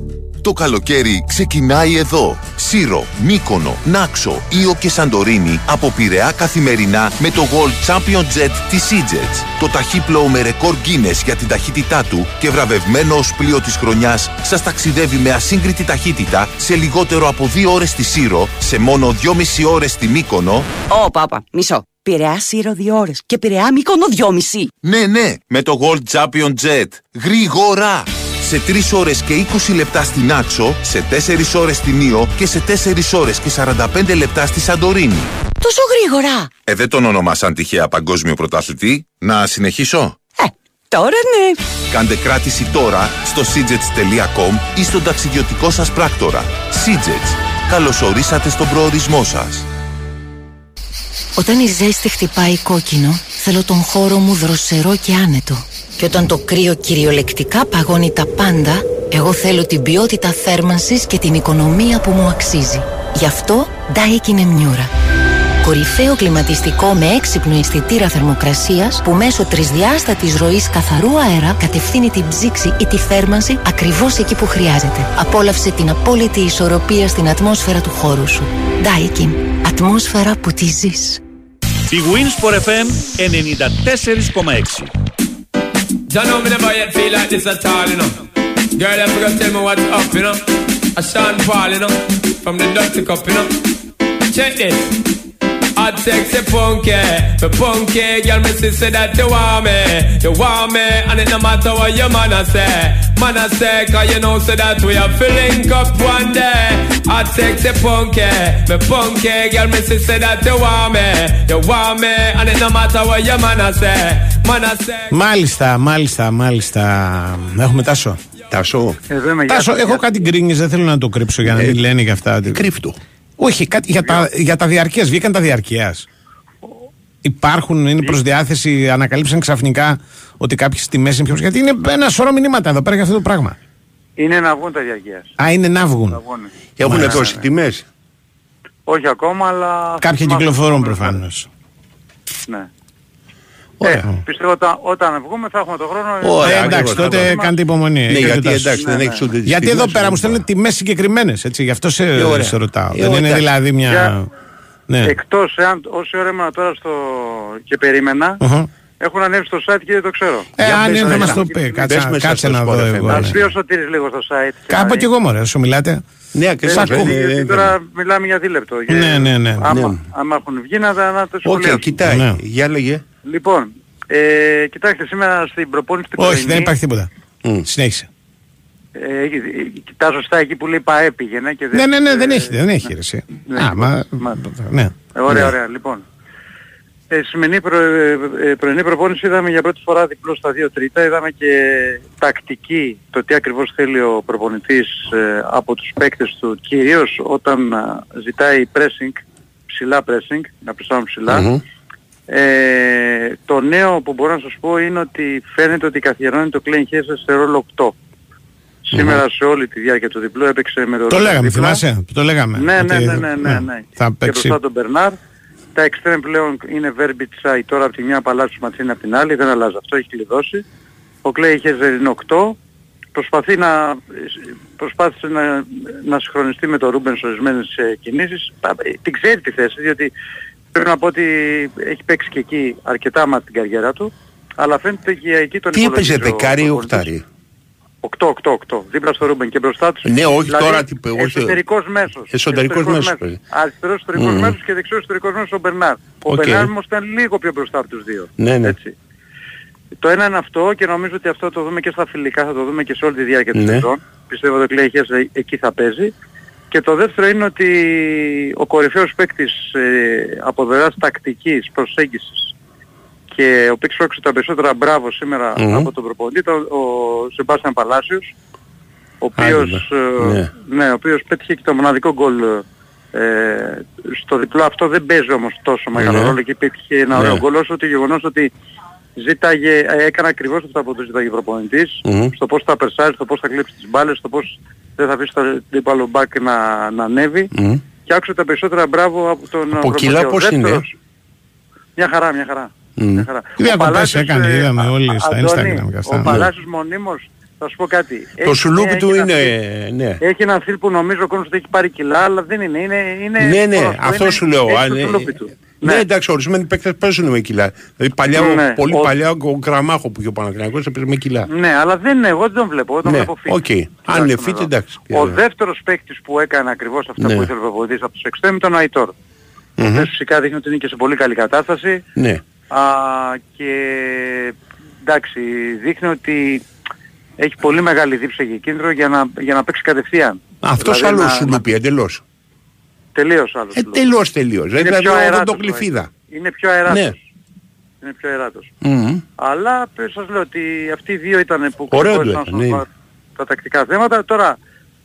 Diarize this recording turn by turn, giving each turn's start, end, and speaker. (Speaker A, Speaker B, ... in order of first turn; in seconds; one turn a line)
Speaker A: 0.4-20.7
Speaker B: 20.9-24.7
Speaker A: 24.8-35.3
Speaker C: 35.6-36.5
Speaker A: 36.6-40.2
Speaker B: 40.9-41.5
Speaker A: 41.9-49.6
Speaker C: 51.4-64.9
Speaker C: 65.6-81.2
Speaker D: 81.9-84.9
Speaker E: 86.1-88.1
Speaker E: 88.8-90.4
Speaker E: 91.0-93.5
Speaker E: 94.3-94.9
Speaker E: 95.8-115.1
Speaker F: 115.1-118.2
Speaker G: 118.5-119.0
Speaker H: 119.1-120.1
Speaker F: 119.5-122.6
Speaker G: 121.5-121.8
Speaker G: 122.4-123.0
Speaker F: 123.4-126.0
Speaker F: 127.2-133.6
Speaker H: 134.2-135.3
Speaker F: 135.4-136.2
Speaker H: 136.1-137.4
Speaker G: 136.8-137.8
Speaker F: 136.8-137.2
Speaker H: 138.9-141.2
Speaker F: 140.0-141.5
Speaker H: 143.8-147.5
Speaker G: 146.2-147.4
Speaker F: 146.4-148.8
Speaker G: 148.1-150.4
Speaker H: 148.8-149.2
Speaker F: 149.5-154.3
Speaker G: 152.1-153.5
Speaker F: 154.9-155.1
Speaker H: 155.0-158.4
Speaker F: 158.4-158.7
Speaker H: 159.0-161.9
Speaker F: 160.6-163.3
Speaker G: 160.6-163.4
Speaker H: 163.1-165.1
Speaker F: 164.7-166.0
Speaker G: 166.3-167.7
Speaker H: 166.6-171.8
Speaker F: 166.7-167.1
Speaker F: 168.9-169.7
Speaker G: 169.7-170.0
Speaker G: 171.4-173.0
Speaker F: 172.0-172.4
Speaker H: 173.2-176.7
Speaker F: 176.2-177.1
Speaker F: 177.6-178.1
Speaker H: 178.9-182.6
Speaker F: 181.7-184.9
Speaker H: 183.5-184.4
Speaker H: 185.1-186.0
Speaker G: 185.3-185.5
Speaker H: 187.1-201.5
Speaker G: 201.3-201.6
Speaker H: 202.3-207.9
Speaker H: 208.8-211.8
Speaker G: 208.9-209.2
Speaker F: 211.1-214.6
Speaker H: 212.6-215.2
Speaker H: 215.7-220.6
Speaker H: 221.2-222.6
Speaker H: 223.1-230.1
Speaker H: 230.7-237.1
Speaker G: 235.7-237.2
Speaker H: 238.0-248.9
Speaker G: 240.0-241.6
Speaker G: 242.3-243.4
Speaker G: 244.1-244.6
Speaker G: 246.3-246.7
Speaker G: 248.4-248.7
Speaker H: 250.0-256.1
Speaker G: 253.5-253.9
Speaker H: 256.7-262.5
Speaker H: 263.3-268.3
Speaker G: 265.6-265.9
Speaker H: 269.2-278.5
Speaker G: 269.4-270.5
Speaker G: 275.9-276.4
Speaker G: 277.1-277.4
Speaker H: 279.2-287.5
Speaker G: 282.0-282.3
Speaker G: 287.5-287.8
Speaker H: 288.1-290.9
Speaker G: 289.7-290.8
Speaker H: 292.0-299.5
Speaker G: 293.0-293.2
Speaker F: 293.6-296.4
Speaker G: 296.2-296.5
Speaker G: 298.4-300.2
Speaker H: 300.2-306.0
Speaker G: 303.4-311.5
Speaker H: 308.3-309.1
Speaker H: 311.5-319.1
Speaker G: 313.0-315.4
Speaker G: 317.2-317.5
Speaker G: 319.8-320.1
Speaker H: 319.8-322.0
Speaker G: 322.1-322.4
Speaker H: 322.7-326.6
Speaker H: 327.4-331.6
Speaker G: 330.6-332.2
Speaker H: 333.1-334.0
Speaker G: 333.7-336.1
Speaker H: 334.8-337.2
Speaker G: 336.9-337.1
Speaker H: 338.0-338.7
Speaker G: 338.8-339.2
Speaker H: 339.4-344.6
Speaker G: 341.9-342.8